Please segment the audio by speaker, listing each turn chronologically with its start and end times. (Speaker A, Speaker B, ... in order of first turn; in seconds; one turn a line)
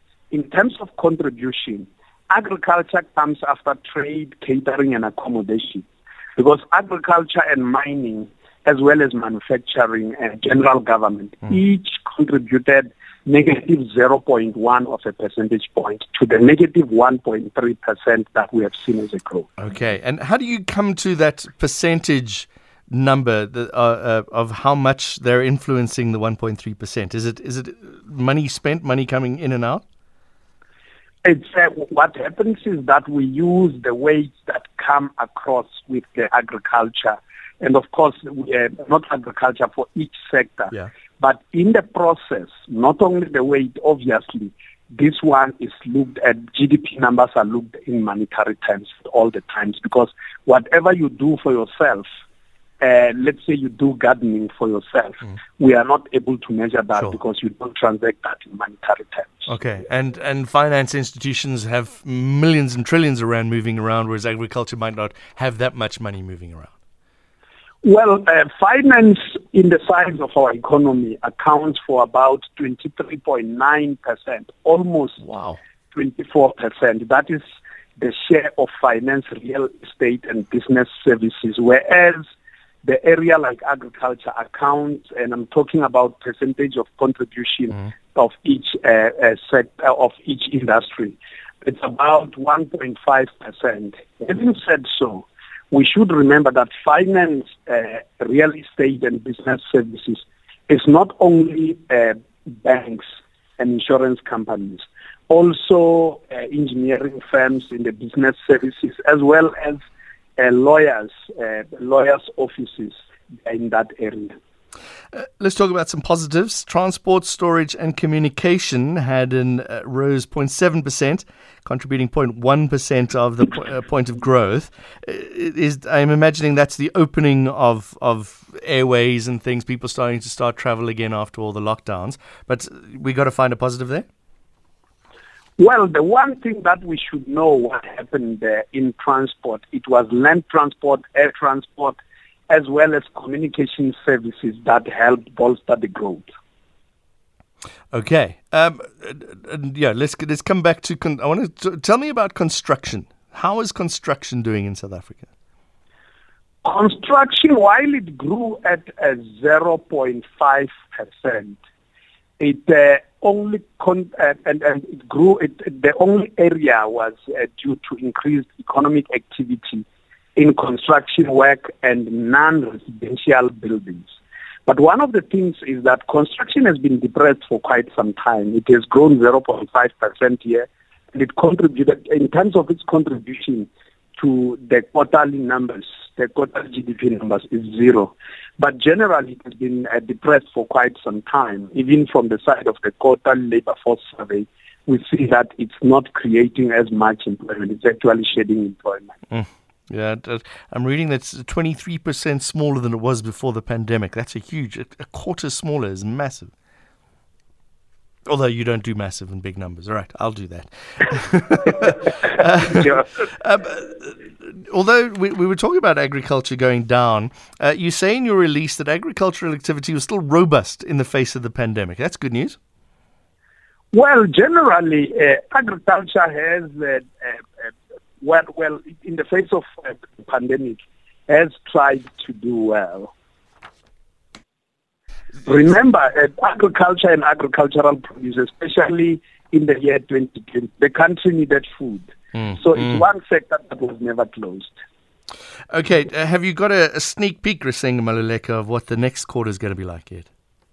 Speaker A: 0.3-19.5
Speaker B: 19.6-29.8
Speaker A: 31.2-52.1
Speaker A: 52.8-59.5
Speaker B: 59.5-66.7
Speaker A: 67.8-75.2
Speaker B: 75.2-75.6
Speaker A: 75.9-77.4
Speaker A: 78.0-82.2
Speaker A: 82.8-109.8
Speaker A: 110.4-114.3
Speaker B: 115.1-134.1
Speaker A: 135.6-142.0
Speaker A: 142.5-146.3
Speaker B: 147.9-155.3
Speaker A: 156.6-161.6
Speaker A: 162.4-174.1
Speaker A: 174.7-199.2
Speaker B: 199.3-206.5
Speaker B: 208.3-222.6
Speaker A: 223.9-233.1
Speaker A: 235.4-244.8
Speaker B: 242.3-242.8
Speaker B: 245.7-250.3